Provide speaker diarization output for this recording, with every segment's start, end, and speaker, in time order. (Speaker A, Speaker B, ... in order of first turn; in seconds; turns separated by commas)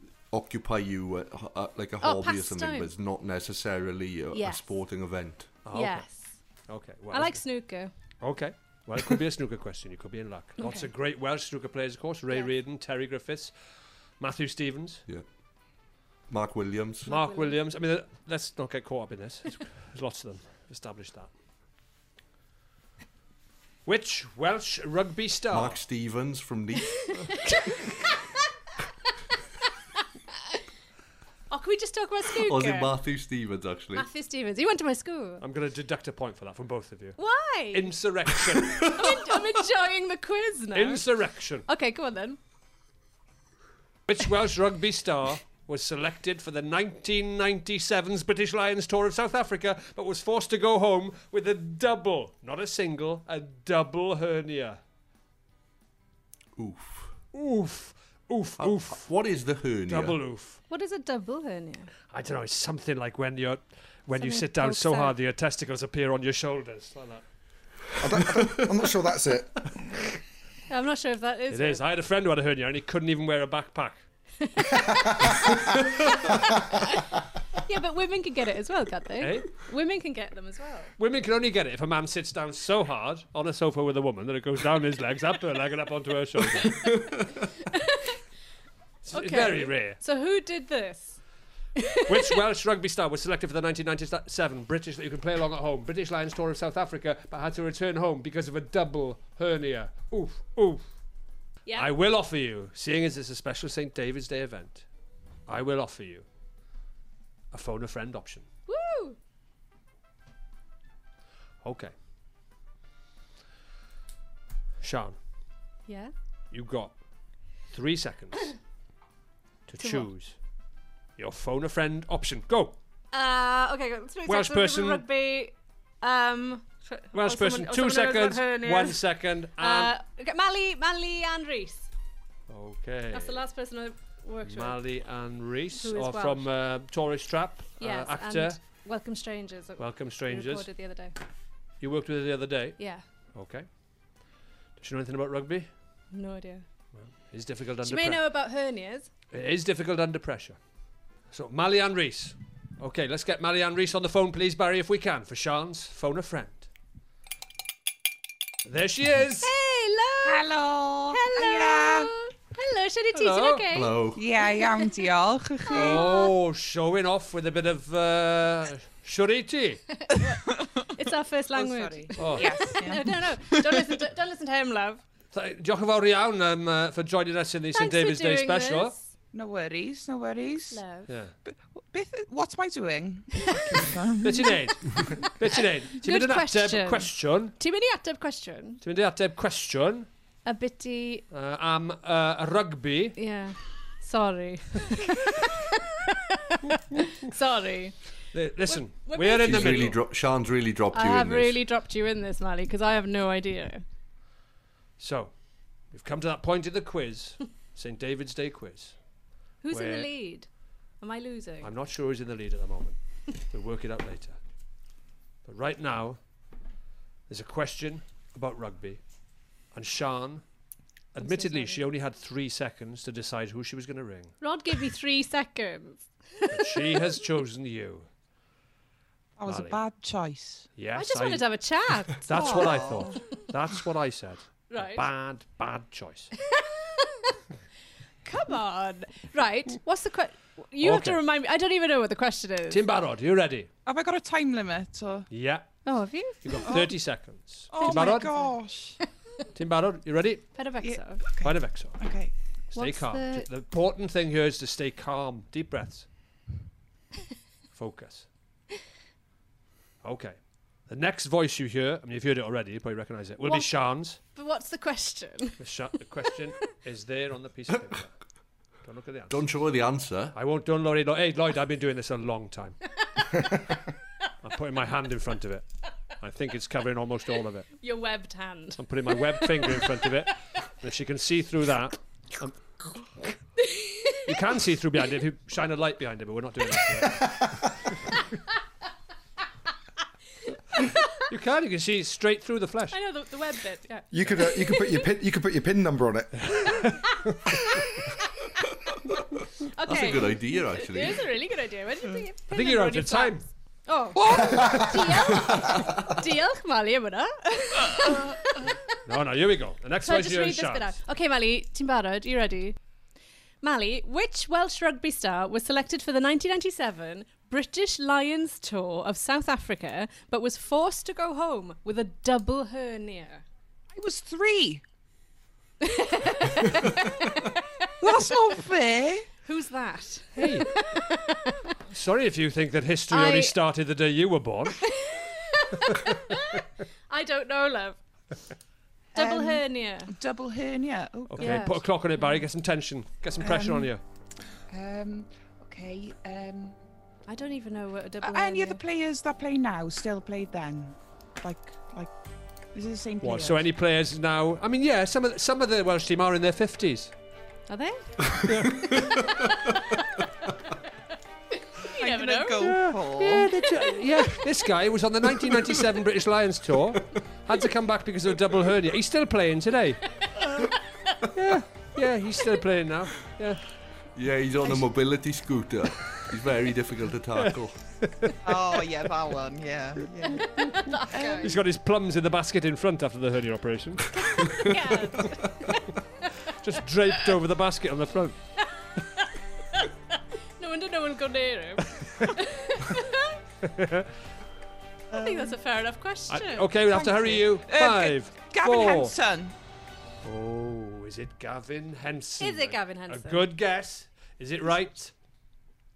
Speaker A: 0.3-5.5, Speaker B: 2.0-2.9, Speaker B: 4.3-4.7, Speaker C: 5.6-6.1, Speaker B: 5.7-6.4, Speaker C: 6.7-7.4, Speaker B: 7.1-7.9, Speaker C: 8.2-13.5, Speaker B: 10.6-10.9, Speaker C: 14.2-15.0, Speaker A: 16.3-17.1, Speaker C: 17.1-21.3, Speaker B: 17.1-17.5, Speaker C: 23.9-25.8, Speaker A: 25.5-27.2, Speaker B: 27.3-28.3, Speaker B: 31.5-32.9, Speaker A: 32.4-34.1, Speaker B: 33.9-35.4, Speaker C: 35.4-37.2, Speaker B: 37.2-37.9, Speaker C: 37.7-39.1, Speaker B: 38.9-41.0, Speaker C: 40.7-41.7, Speaker B: 41.6-42.4, Speaker C: 44.1-54.8, Speaker A: 56.6-57.2, Speaker C: 57.3-59.1, Speaker A: 58.6-60.2, Speaker C: 59.9-60.6, Speaker B: 60.7-61.9, Speaker C: 62.1-67.2, Speaker B: 64.2-65.2, Speaker D: 68.0-69.7, Speaker B: 70.7-71.8, Speaker C: 71.5-74.0, Speaker B: 74.4-75.5, Speaker B: 77.7-80.9, Speaker C: 79.2-79.5, Speaker C: 81.0-86.9, Speaker A: 86.8-87.2, Speaker C: 89.0-90.0, Speaker B: 89.1-91.2, Speaker B: 91.8-92.4, Speaker C: 92.1-100.9, Speaker C: 101.8-104.8, Speaker C: 105.5-106.2, Speaker C: 107.5-108.5, Speaker B: 108.7-109.2, Speaker C: 111.6-111.9, Speaker C: 114.8-115.2, Speaker B: 115.9-116.1, Speaker C: 116.5-116.9, Speaker C: 117.7-118.5, Speaker C: 119.7-120.4, Speaker B: 119.8-120.1, Speaker C: 121.2-122.8, Speaker B: 123.1-129.0, Speaker C: 124.2-125.0, Speaker C: 127.1-129.9, Speaker B: 129.6-131.9, Speaker C: 132.5-133.4, Speaker B: 133.1-134.8, Speaker C: 134.4-138.6, Speaker B: 135.8-136.5, Speaker B: 137.8-141.1, Speaker C: 139.8-140.7, Speaker C: 141.8-142.8, Speaker B: 142.8-143.0, Speaker C: 143.3-143.7, Speaker C: 144.8-145.7, Speaker B: 146.1-146.7, Speaker C: 146.9-148.2, Speaker B: 147.8-149.1, Speaker C: 149.3-150.6, Speaker C: 151.3-156.7, Speaker C: 158.7-159.5, Speaker B: 159.4-160.5, Speaker E: 160.2-162.1, Speaker B: 161.1-164.9, Speaker C: 163.1-163.7, Speaker A: 163.7-164.2, Speaker E: 164.1-166.0, Speaker B: 165.7-166.3, Speaker C: 165.7-169.8, Speaker B: 170.1-170.4, Speaker E: 170.3-170.8, Speaker B: 170.9-175.0, Speaker E: 171.5-174.1, Speaker C: 172.2-172.7, Speaker C: 175.3-178.9, Speaker B: 177.7-179.1, Speaker E: 179.3-180.8, Speaker B: 180.7-181.1, Speaker C: 181.1-181.3, Speaker E: 181.4-184.6, Speaker C: 184.2-187.5, Speaker B: 185.9-188.8, Speaker C: 188.8-190.1, Speaker B: 190.4-191.2, Speaker C: 191.3-193.2, Speaker B: 193.2-195.6, Speaker B: 196.5-198.0, Speaker C: 198.3-200.0, Speaker B: 198.7-200.0, Speaker A: 199.4-201.6, Speaker B: 200.9-203.8, Speaker C: 205.0-205.3, Speaker C: 205.9-208.9, Speaker B: 209.6-210.5, Speaker C: 209.7-210.1, Speaker B: 211.0-211.7, Speaker C: 211.6-214.4, Speaker C: 215.4-216.2, Speaker C: 217.3-219.0, Speaker C: 219.7-220.4, Speaker C: 221.1-224.3, Speaker B: 221.2-221.8, Speaker B: 224.4-226.8, Speaker C: 226.5-228.1, Speaker E: 229.4-230.7, Speaker C: 229.5-229.8, Speaker C: 230.8-231.6, Speaker B: 230.9-233.2, Speaker C: 232.2-236.3, Speaker E: 232.3-233.2, Speaker B: 234.7-235.0, Speaker B: 236.6-237.4, Speaker B: 238.2-242.8, Speaker C: 240.8-241.2, Speaker C: 242.7-243.7, Speaker E: 243.8-245.3, Speaker C: 245.3-245.8, Speaker B: 245.8-246.8, Speaker C: 246.4-248.3, Speaker E: 246.6-246.9, Speaker E: 247.7-249.0, Speaker B: 247.8-248.5, Speaker C: 249.5-250.6, Speaker B: 250.5-251.2, Speaker E: 250.8-252.3, Speaker C: 251.4-252.0, Speaker C: 252.7-256.1, Speaker B: 252.7-253.5, Speaker C: 257.7-258.3, Speaker C: 260.0-264.2, Speaker B: 263.4-263.7, Speaker B: 264.2-265.6, Speaker C: 265.6-268.1, Speaker C: 268.8-269.4, Speaker A: 269.3-270.4, Speaker C: 270.3-272.8, Speaker C: 274.4-275.6, Speaker C: 276.2-277.7, Speaker B: 277.8-280.1, Speaker C: 278.8-282.6, Speaker B: 283.6-284.2, Speaker C: 284.2-287.6, Speaker B: 290.8-291.2, Speaker C: 291.3-293.0, Speaker B: 292.9-295.0, Speaker D: 294.1-296.8, Speaker B: 296.8-298.0, Speaker B: 299.7-308.8, Speaker A: 299.8-301.3, Speaker C: 302.5-303.5, Speaker E: 304.1-305.2, Speaker C: 309.1-310.9, Speaker B: 310.0-312.8, Speaker B: 313.6-323.4, Speaker E: 323.9-324.8, Speaker B: 325.8-327.2, Speaker E: 328.0-329.3, Speaker B: 329.4-331.7, Speaker C: 330.4-330.7, Speaker C: 331.9-334.8, Speaker B: 333.1-333.5, Speaker B: 335.1-338.0, Speaker B: 339.1-340.1, Speaker E: 339.1-341.7, Speaker C: 341.3-344.0, Speaker B: 341.4-342.4, Speaker E: 343.4-343.9, Speaker E: 344.7-346.8, Speaker B: 347.3-348.8, Speaker E: 348.2-352.1, Speaker E: 352.7-353.7, Speaker C: 353.2-357.1, Speaker B: 357.7-358.4, Speaker C: 358.4-358.9, Speaker E: 362.0-363.5, Speaker B: 362.0-362.8, Speaker C: 362.6-370.2, Speaker C: 371.3-373.7, Speaker A: 374.1-377.8, Speaker C: 377.4-378.4, Speaker E: 378.4-381.5, Speaker B: 380.5-381.5, Speaker C: 381.4-384.3, Speaker B: 384.1-385.9, Speaker C: 386.5-388.4, Speaker B: 389.0-389.9, Speaker B: 390.6-393.4, Speaker C: 393.6-394.1, Speaker E: 395.1-395.6, Speaker B: 395.1-396.8, Speaker C: 396.3-399.1, Speaker E: 396.8-399.5, Speaker C: 400.2-405.1, Speaker B: 402.4-403.4